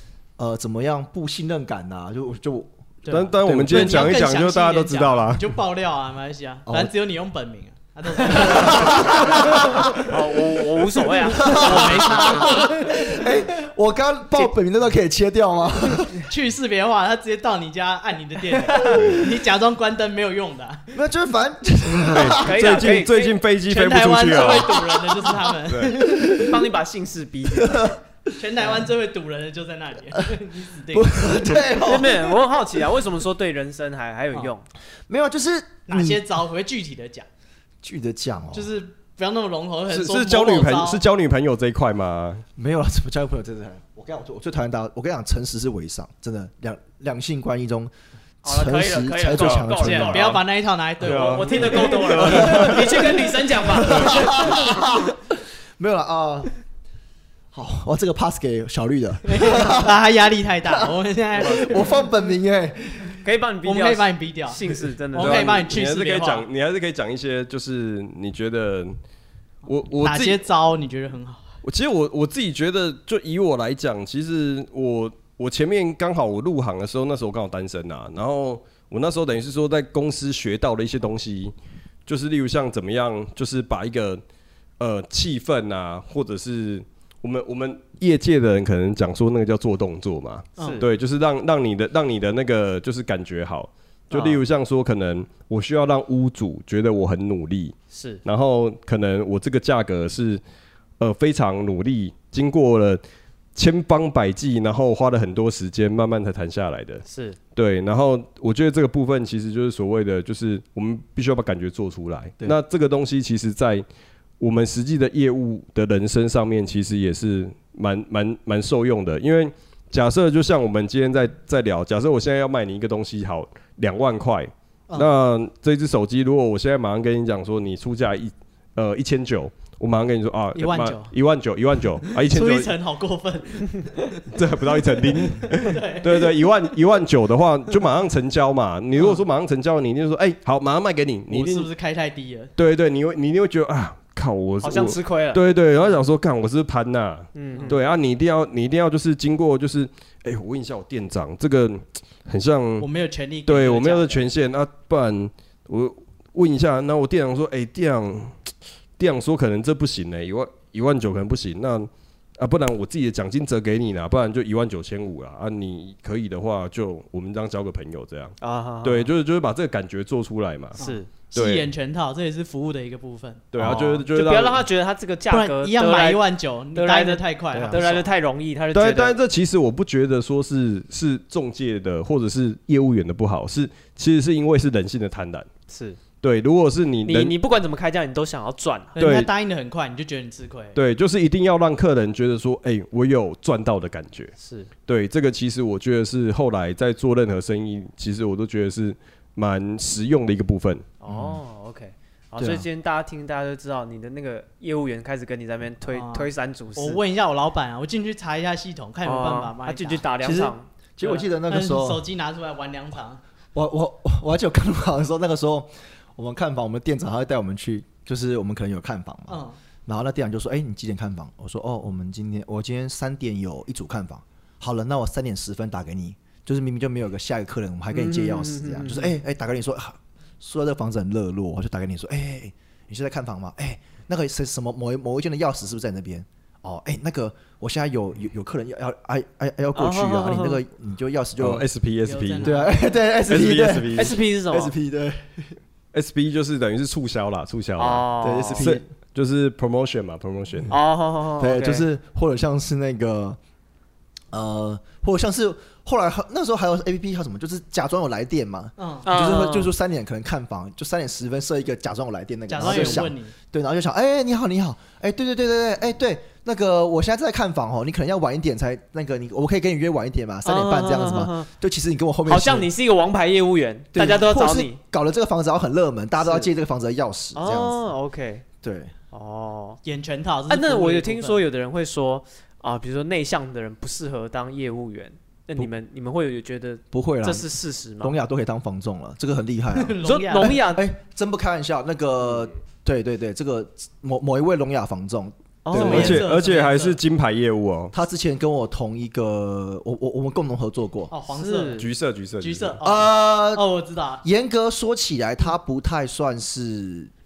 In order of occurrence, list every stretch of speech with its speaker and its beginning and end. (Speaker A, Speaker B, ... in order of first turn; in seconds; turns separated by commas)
Speaker A: 0.4-2.7, Speaker B: 3.0-9.7, Speaker C: 3.1-5.5, Speaker A: 3.4-4.2, Speaker A: 6.7-6.9, Speaker A: 8.2-10.1, Speaker D: 9.9-12.6, Speaker A: 11.3-16.2, Speaker B: 11.4-12.8, Speaker B: 16.2-20.9, Speaker A: 20.9-22.6, Speaker C: 22.1-24.8, Speaker D: 22.4-23.4, Speaker B: 23.7-26.5, Speaker C: 25.7-25.9, Speaker A: 26.0-26.6, Speaker D: 26.2-27.9, Speaker A: 27.6-28.0, Speaker B: 28.4-31.6, Speaker A: 30.9-32.4, Speaker D: 31.8-34.7, Speaker A: 35.1-36.2, Speaker B: 35.9-37.3, Speaker A: 37.8-38.7, Speaker B: 38.5-41.0, Speaker C: 39.9-42.4, Speaker A: 42.5-47.9, Speaker A: 48.4-50.4, Speaker D: 48.4-50.4, Speaker C: 49.4-49.7, Speaker B: 49.8-51.9, Speaker C: 51.0-53.1, Speaker D: 51.0-54.8, Speaker A: 52.0-56.5, Speaker C: 53.8-54.4, Speaker A: 57.5-60.0, Speaker B: 59.2-62.0, Speaker A: 60.7-63.2, Speaker D: 63.2-65.7, Speaker B: 63.6-64.6, Speaker B: 65.1-66.5, Speaker C: 65.2-68.9, Speaker C: 69.6-70.4, Speaker B: 70.0-71.4, Speaker C: 71.6-81.5, Speaker C: 82.0-84.2, Speaker C: 84.8-100.4, Speaker B: 90.6-90.8, Speaker D: 90.6-90.9, Speaker D: 94.1-94.4, Speaker D: 97.9-98.2, Speaker C: 101.0-103.0, Speaker C: 103.5-113.8, Speaker D: 107.0-107.4, Speaker C: 114.4-132.7, Speaker B: 130.5-131.1, Speaker B: 132.0-134.2, Speaker C: 134.3-141.7, Speaker B: 135.4-136.3, Speaker B: 141.3-142.5, Speaker C: 142.6-152.9, Speaker D: 144.6-145.4, Speaker D: 147.3-147.8, Speaker B: 152.8-154.2, Speaker C: 153.4-158.4, Speaker C: 159.0-170.8, Speaker D: 168.4-169.1, Speaker D: 170.8-171.1, Speaker B: 170.8-174.0, Speaker C: 171.3-171.7, Speaker C: 173.5-174.6, Speaker D: 173.6-179.2, Speaker B: 175.3-177.9, Speaker A: 177.5-177.9, Speaker C: 178.7-185.5, Speaker D: 185.7-186.0, Speaker C: 186.2-187.3, Speaker D: 187.0-189.0, Speaker B: 188.9-190.8, Speaker C: 189.0-189.3, Speaker C: 190.7-194.3, Speaker D: 194.4-194.7, Speaker C: 194.8-200.8, Speaker D: 201.0-207.0, Speaker A: 201.1-201.4, Speaker A: 202.4-202.7, Speaker B: 205.9-210.0, Speaker D: 209.0-210.7, Speaker A: 210.2-212.0, Speaker B: 211.0-213.2, Speaker A: 213.5-241.7, Speaker B: 219.3-219.6, Speaker D: 227.9-229.1, Speaker D: 239.7-240.6, Speaker C: 241.4-242.6, Speaker B: 242.0-242.9, Speaker A: 242.4-245.6, Speaker C: 243.3-244.1, Speaker D: 243.9-244.7, Speaker C: 245.9-250.7, Speaker D: 247.8-248.7, Speaker A: 248.2-248.8, Speaker D: 250.7-251.8, Speaker A: 251.4-253.4, Speaker A: 254.3-272.7, Speaker B: 258.8-259.1, Speaker D: 259.0-259.7, Speaker B: 262.5-263.3, Speaker D: 262.6-263.0, Speaker D: 270.4-271.5, Speaker D: 272.2-274.8, Speaker A: 273.9-277.9, Speaker D: 276.2-276.5, Speaker D: 277.3-278.4, Speaker A: 278.6-278.9, Speaker D: 279.1-279.8, Speaker B: 279.8-281.4, Speaker D: 280.5-288.1, Speaker A: 286.9-287.5, Speaker A: 288.0-296.2, Speaker B: 289.7-290.6, Speaker D: 290.0-290.8, Speaker D: 295.6-296.2, Speaker C: 295.7-297.9, Speaker B: 295.7-297.0, Speaker A: 297.9-301.1, Speaker B: 301.1-301.8, Speaker D: 301.3-301.9, Speaker C: 301.8-302.8, Speaker B: 302.4-304.2, Speaker A: 302.8-303.7, Speaker A: 304.2-307.1